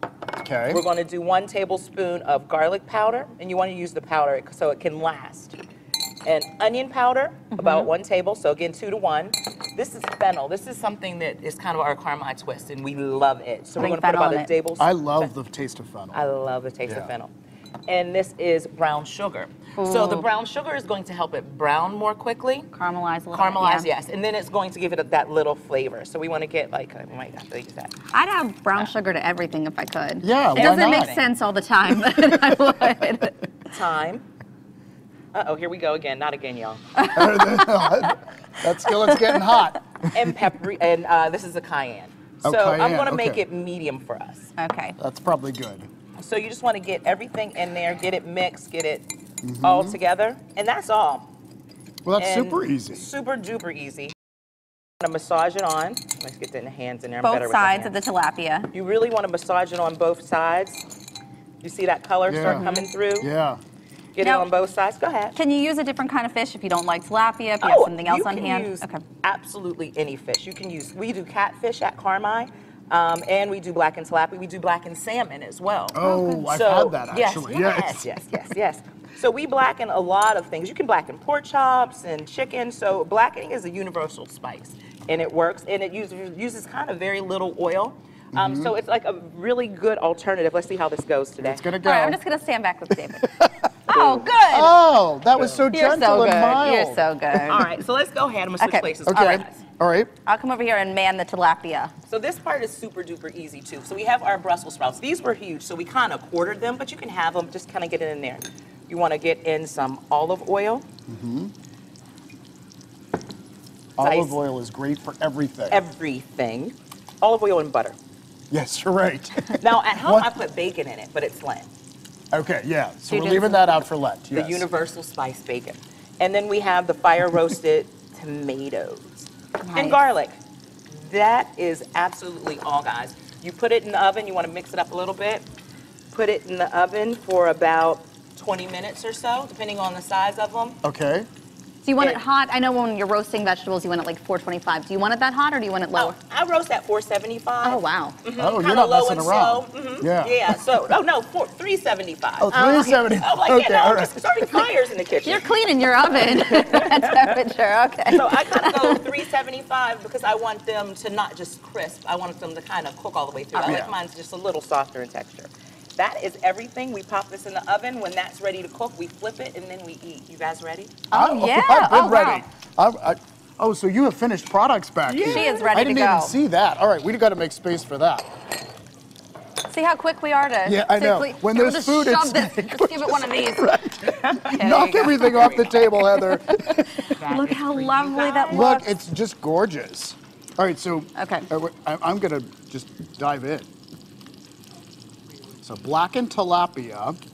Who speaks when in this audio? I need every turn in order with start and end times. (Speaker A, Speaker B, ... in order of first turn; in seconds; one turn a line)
Speaker A: 0.3-0.8
Speaker B: 0.7-5.5
Speaker B: 6.2-15.3
Speaker C: 7.5-7.9
Speaker C: 13.8-14.5
Speaker A: 14.8-16.2
Speaker B: 16.1-17.3
Speaker B: 17.9-22.7
Speaker C: 19.8-20.2
Speaker C: 22.7-23.9
Speaker B: 23.3-27.9
Speaker C: 28.1-33.5
Speaker A: 30.2-31.2
Speaker B: 30.5-31.3
Speaker B: 33.7-34.2
Speaker B: 35.3-36.9
Speaker C: 37.0-38.0
Speaker A: 37.1-40.3
Speaker C: 38.9-39.5
Speaker B: 40.1-44.5
Speaker A: 42.4-43.4
Speaker C: 44.6-45.0
Speaker A: 45.0-45.9
Speaker B: 46.2-49.1
Speaker A: 49.4-50.0
Speaker B: 49.6-51.3
Speaker A: 52.0-53.0
Speaker B: 52.2-54.1
Speaker B: 55.0-58.0
Speaker C: 57.2-58.7
Speaker B: 58.7-60.9
Speaker B: 61.6-63.3
Speaker A: 62.3-63.6
Speaker C: 62.4-62.9
Speaker B: 64.1-65.4
Speaker C: 64.2-64.5
Speaker C: 65.4-69.0
Speaker B: 67.6-91.6
Speaker A: 75.9-78.1
Speaker C: 76.0-76.5
Speaker A: 88.3-88.7
Speaker A: 91.4-92.2
Speaker C: 91.8-93.3
Speaker A: 92.9-93.6
Speaker C: 93.9-94.8
Speaker B: 93.9-94.3
Speaker A: 94.5-97.4
Speaker B: 95.4-95.6
Speaker C: 95.7-97.7
Speaker B: 97.5-99.6
Speaker C: 98.6-98.9
Speaker A: 99.0-100.1
Speaker C: 100.2-101.9
Speaker B: 102.1-110.9
Speaker A: 111.1-111.5
Speaker A: 114.0-115.8
Speaker B: 114.0-114.4
Speaker B: 115.7-118.0
Speaker A: 118.5-120.3
Speaker B: 119.6-121.7
Speaker A: 122.3-124.7
Speaker C: 123.1-123.7
Speaker B: 124.3-130.4
Speaker C: 129.6-130.0
Speaker B: 130.9-135.4
Speaker B: 136.1-140.8
Speaker A: 140.8-141.3
Speaker C: 141.8-146.1
Speaker B: 145.9-155.5
Speaker C: 147.6-148.2
Speaker A: 148.4-150.6
Speaker A: 152.4-154.2
Speaker C: 155.2-159.0
Speaker B: 156.4-157.3
Speaker B: 158.1-171.0
Speaker C: 163.6-163.8
Speaker A: 163.6-163.9
Speaker C: 171.1-172.4
Speaker A: 171.1-178.3
Speaker B: 175.1-175.7
Speaker C: 175.2-176.3
Speaker C: 179.7-188.9
Speaker A: 180.6-187.2
Speaker B: 184.3-185.7
Speaker B: 187.1-188.7
Speaker A: 188.5-193.7
Speaker C: 191.2-191.5
Speaker A: 195.6-197.2